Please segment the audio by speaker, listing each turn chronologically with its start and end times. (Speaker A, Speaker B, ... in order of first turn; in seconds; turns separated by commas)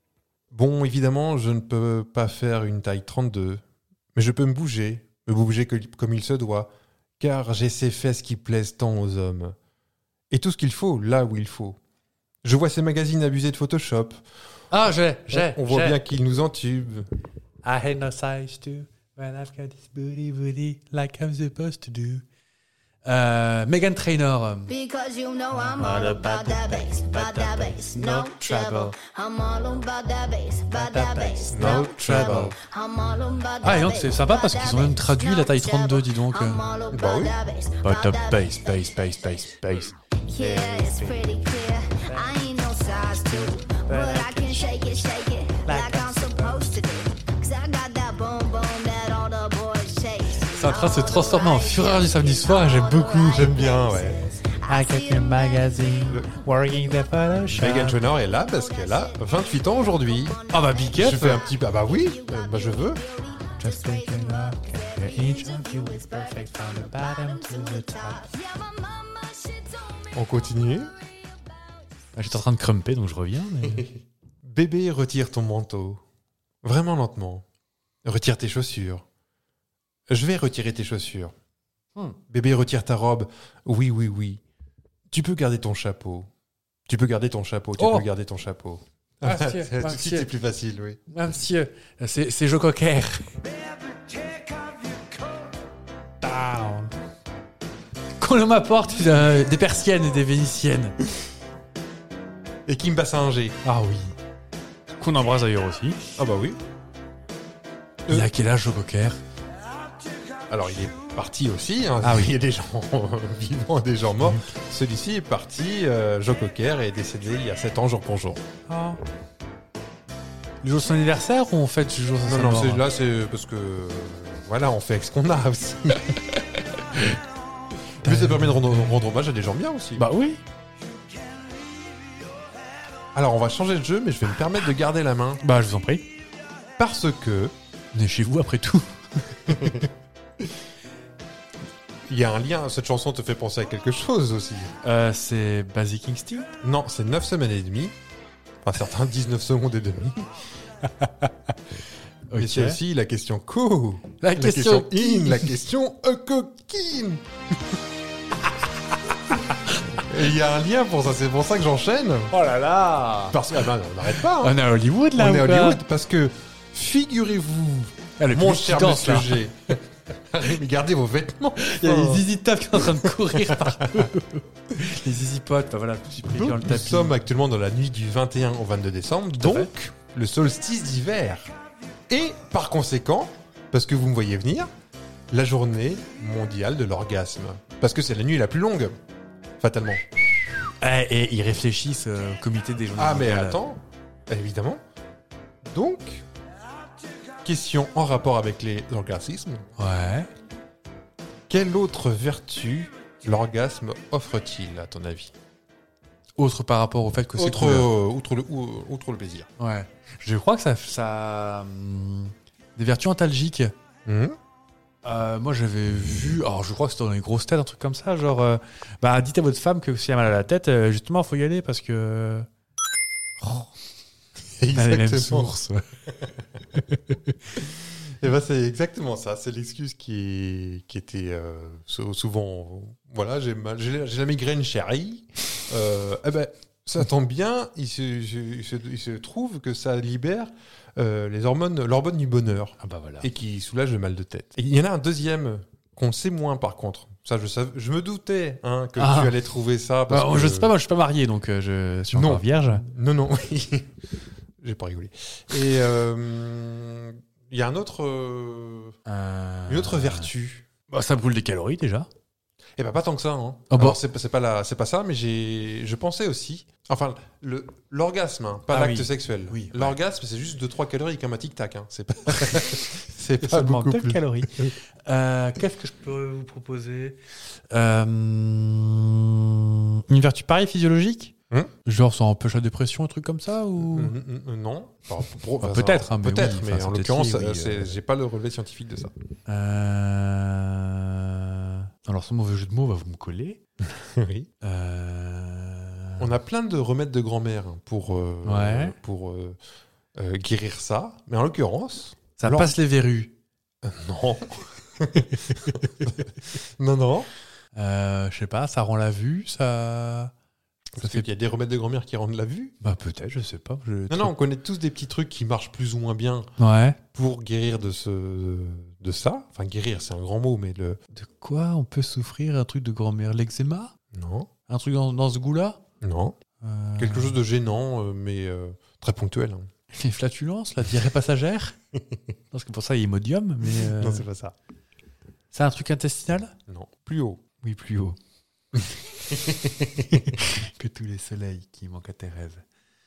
Speaker A: 0.5-3.6, Speaker A: 4.2-9.6, Speaker A: 10.3-11.8, Speaker A: 12.4-14.2, Speaker B: 14.7-16.0, Speaker A: 15.3-17.1, Speaker B: 17.6-22.2, Speaker B: 23.1-24.7, Speaker C: 24.7-39.5, Speaker B: 25.5-29.0, Speaker B: 30.7-32.6, Speaker A: 31.5-32.5, Speaker B: 33.6-36.6, Speaker A: 36.9-37.4, Speaker B: 37.8-41.4, Speaker C: 40.3-56.3, Speaker B: 42.0-45.0, Speaker B: 45.6-46.9, Speaker B: 50.4-53.7, Speaker A: 53.3-54.2, Speaker B: 54.7-58.0, Speaker A: 57.5-60.4, Speaker C: 58.0-71.8, Speaker B: 60.5-61.5, Speaker A: 61.0-63.0, Speaker B: 63.6-68.2, Speaker A: 70.1-70.9, Speaker B: 72.2-73.9, Speaker A: 74.4-76.0, Speaker A: 76.6-77.5, Speaker A: 78.0-79.0, Speaker A: 80.1-81.3, Speaker A: 82.3-84.4, Speaker A: 85.1-86.3, Speaker A: 86.9-91.0, Speaker B: 87.8-88.1, Speaker B: 89.2-90.3, Speaker B: 91.1-93.4, Speaker B: 96.2-96.9, Speaker B: 98.2-101.0, Speaker A: 102.7-103.6, Speaker B: 103.6-104.2, Speaker B: 105.0-106.0, Speaker A: 106.2-106.6, Speaker A: 108.1-108.3, Speaker B: 108.1-109.2, Speaker A: 110.5-118.4, Speaker B: 112.0-112.3, Speaker B: 118.7-119.0, Speaker B: 120.6-122.8, Speaker A: 122.2-126.2, Speaker B: 128.0-128.9, Speaker A: 128.0-130.0, Speaker B: 130.0-130.4, Speaker A: 133.1-135.4, Speaker B: 135.4-136.1, Speaker A: 136.8-137.5, Speaker B: 137.9-139.8, Speaker A: 139.5-139.9, Speaker A: 142.1-144.7, Speaker B: 144.8-146.5, Speaker A: 146.6-148.0, Speaker A: 148.6-150.3, Speaker B: 151.0-151.3, Speaker B: 152.3-152.8, Speaker A: 152.4-157.2, Speaker B: 154.2-155.5, Speaker B: 158.5-160.1, Speaker A: 159.9-162.3, Speaker B: 162.3-163.6, Speaker A: 163.3-164.6, Speaker B: 164.2-165.8, Speaker A: 165.2-174.1, Speaker B: 168.2-169.4, Speaker B: 171.6-177.2, Speaker A: 176.3-181.5, Speaker B: 179.4-179.7, Speaker A: 182.1-184.7, Speaker A: 185.3-189.0, Speaker A: 189.6-190.2, Speaker B: 190.8-193.6, Speaker A: 193.0-194.8, Speaker A: 195.6-196.2, Speaker A: 197.4-199.7, Speaker B: 199.8-200.3, Speaker A: 201.5-205.3, Speaker B: 206.4-207.9, Speaker A: 207.4-209.5, Speaker B: 209.6-213.7, Speaker A: 214.1-214.4, Speaker B: 215.0-222.5, Speaker B: 223.4-223.7, Speaker A: 224.6-225.5, Speaker B: 224.7-225.9, Speaker B: 226.8-227.3, Speaker A: 227.6-250.7, Speaker B: 242.8-243.3, Speaker B: 249.0-249.4, Speaker B: 250.1-252.9, Speaker A: 252.1-254.0, Speaker A: 254.6-259.0, Speaker B: 259.1-260.3, Speaker A: 259.7-260.7, Speaker B: 260.9-262.1, Speaker A: 262.8-274.7, Speaker B: 263.7-264.0, Speaker B: 268.7-270.0, Speaker B: 272.4-272.7, Speaker B: 273.4-277.2, Speaker B: 277.7-281.3, Speaker B: 281.9-284.1, Speaker A: 283.8-289.1, Speaker B: 285.6-287.9, Speaker B: 289.5-293.6, Speaker A: 293.8-294.5, Speaker B: 294.6-296.3, Speaker A: 296.2-299.6, Speaker B: 298.4-298.9, Speaker A: 300.1-302.7, Speaker B: 302.4-303.3, Speaker A: 303.8-307.3, Speaker B: 307.8-310.3, Speaker A: 311.0-312.8, Speaker B: 311.0-311.3, Speaker B: 312.8-314.3, Speaker A: 314.1-316.5, Speaker B: 316.6-317.0, Speaker A: 317.1-321.0, Speaker B: 321.1-323.9, Speaker A: 324.1-324.5, Speaker B: 324.7-325.8, Speaker A: 326.0-326.4, Speaker B: 326.6-327.4, Speaker A: 327.0-329.7, Speaker B: 329.9-331.8, Speaker B: 332.5-334.2, Speaker A: 333.9-334.6, Speaker B: 335.5-336.5, Speaker A: 336.7-337.4, Speaker B: 337.6-338.2, Speaker A: 339.3-340.4, Speaker B: 340.2-342.6